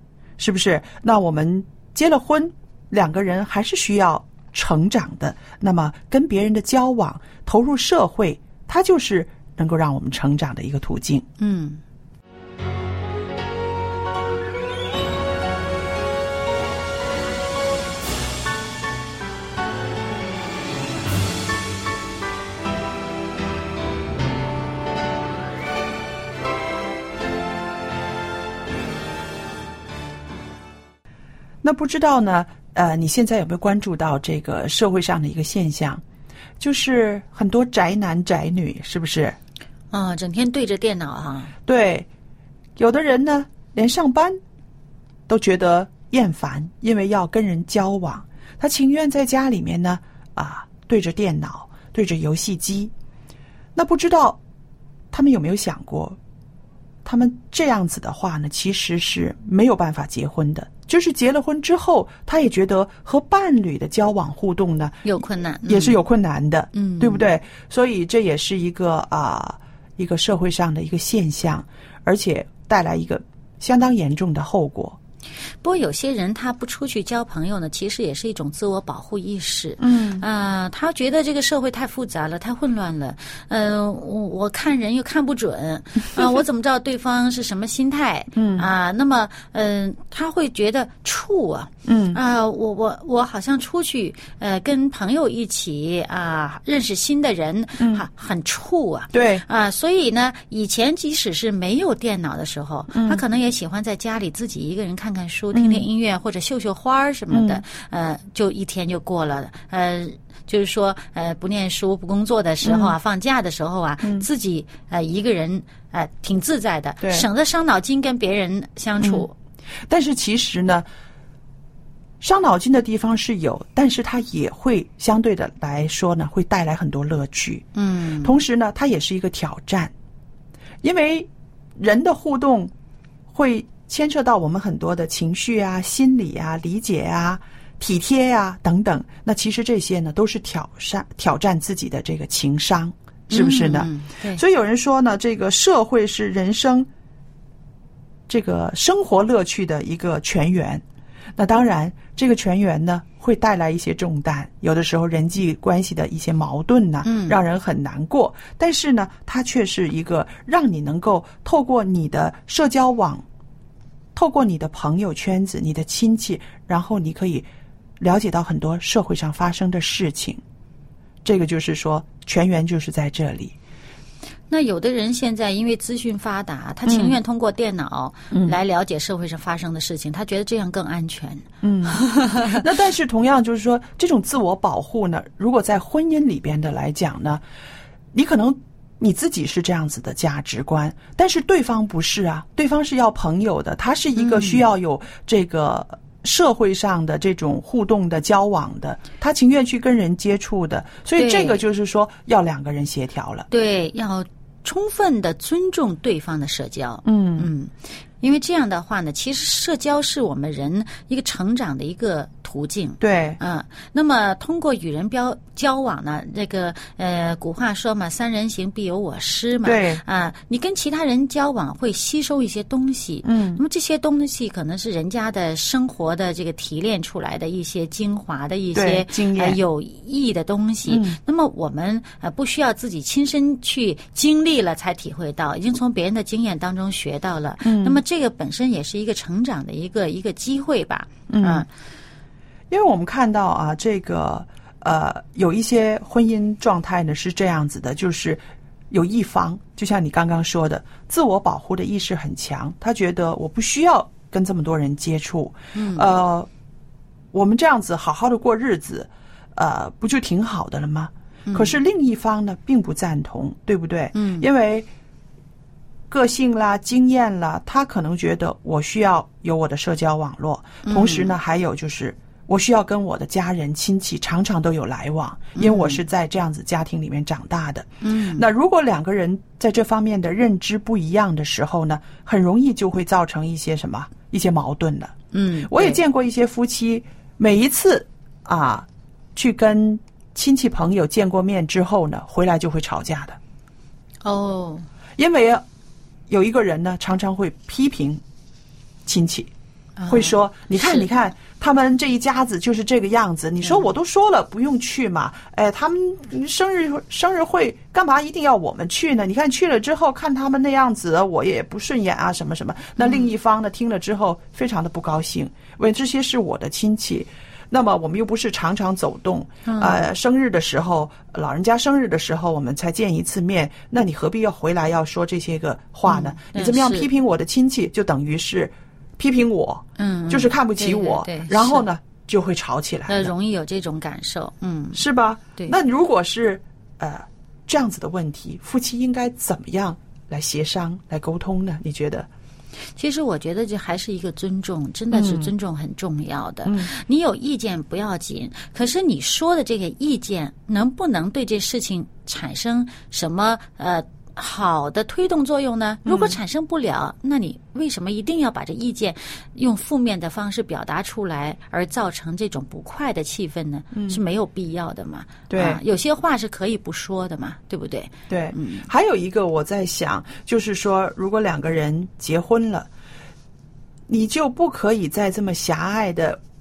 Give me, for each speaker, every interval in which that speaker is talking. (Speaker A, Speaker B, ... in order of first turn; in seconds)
Speaker A: 0.4-11.3, 31.6-36.0, 36.6-39.4, 41.7-42.1, 42.8-44.4, 45.3-52.9, 53.8-54.4, 55.1-56.2, 57.0-75.0, 79.8-80.2, 86.1-86.4, 88.3-88.7, 91.9-92.2, 97.8-98.1, 99.1-99.4, 102.9-103.2, 105.5-105.9, 107.3-107.6, 112.6-112.9, 114.0-114.3, 117.0-117.2, 119.0-119.3, 119.9-120.9, 122.2-127.7, 128.2-129.9, 130.8-132.7, 133.3-146.9, 148.3-150.8, 151.4-163.2, 164.1-167.5, 168.0-170.4, 171.2-173.6, 176.9-177.2, 178.3-178.6, 181.6-187.4, 188.1-203.5, 207.1-207.5, 213.0-213.4, 219.6-220.0, 223.2-223.6, 228.8-229.6, 230.9-231.2, 237.6-238.0, 241.3-241.7, 242.7-256.5, 257.3-264.9, 266.1-285.1, 285.7-293.4, 295.2-295.6, 296.3-298.2, 299.1-299.5, 300.1-333.3, 334.9-342.3, 345.1-345.5, 346.6-346.9, 356.0-356.4, 363.9-364.2, 365.5-365.8, 368.3-372.9, 374.1-376.4
Speaker B: 11.4-11.8, 39.9-41.5, 65.0-66.0, 66.7-67.3, 75.6-119.3, 127.8-128.3, 143.3-144.4, 157.0-157.4, 174.5-182.6, 194.2-194.6, 201.2-201.6, 203.5-241.7, 255.7-256.1, 261.4-261.8, 264.1-264.4, 270.8-271.3, 275.6-276.0, 278.0-278.4, 285.3-286.0, 294.2-294.9, 300.0-301.1, 313.0-313.3, 319.6-320.0, 326.1-327.1, 330.0-331.9, 333.1-335.0, 343.0-368.9